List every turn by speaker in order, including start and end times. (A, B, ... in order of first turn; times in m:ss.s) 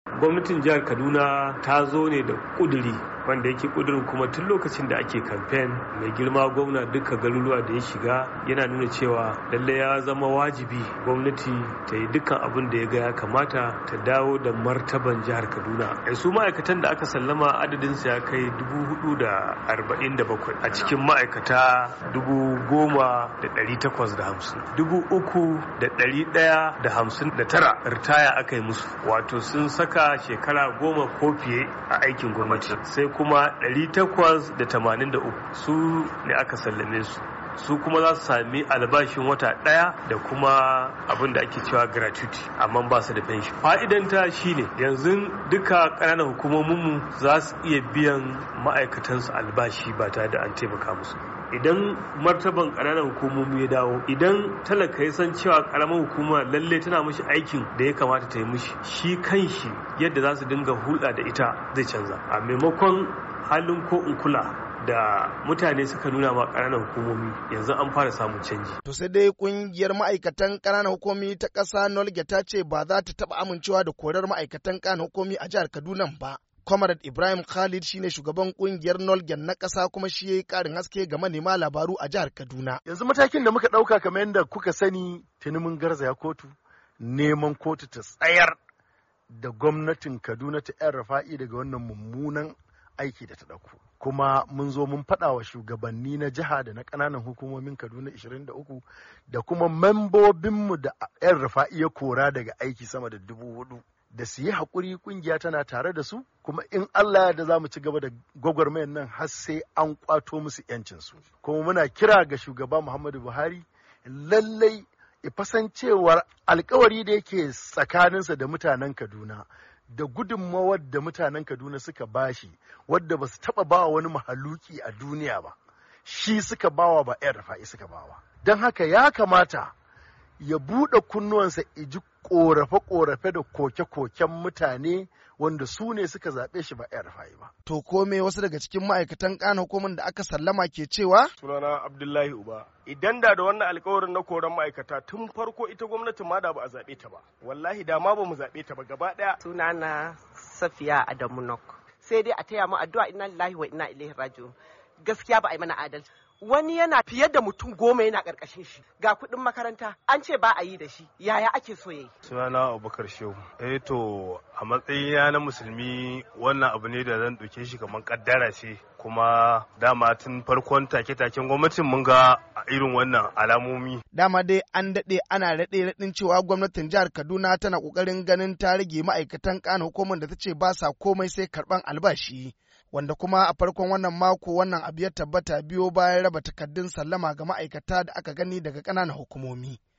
0:00.1-1:08.8 A
1:08.8-1:22.8 B
1:22.8-1:28.6 C
1:29.3-2:09.7 C
2:10.4-2:17.5 C
2:17.6-2:21.3 B
2:21.4-2:29.4 D
2:29.4-2:42.1 E
2:42.2-2:54.0 F
2:54.1-3:09.8 B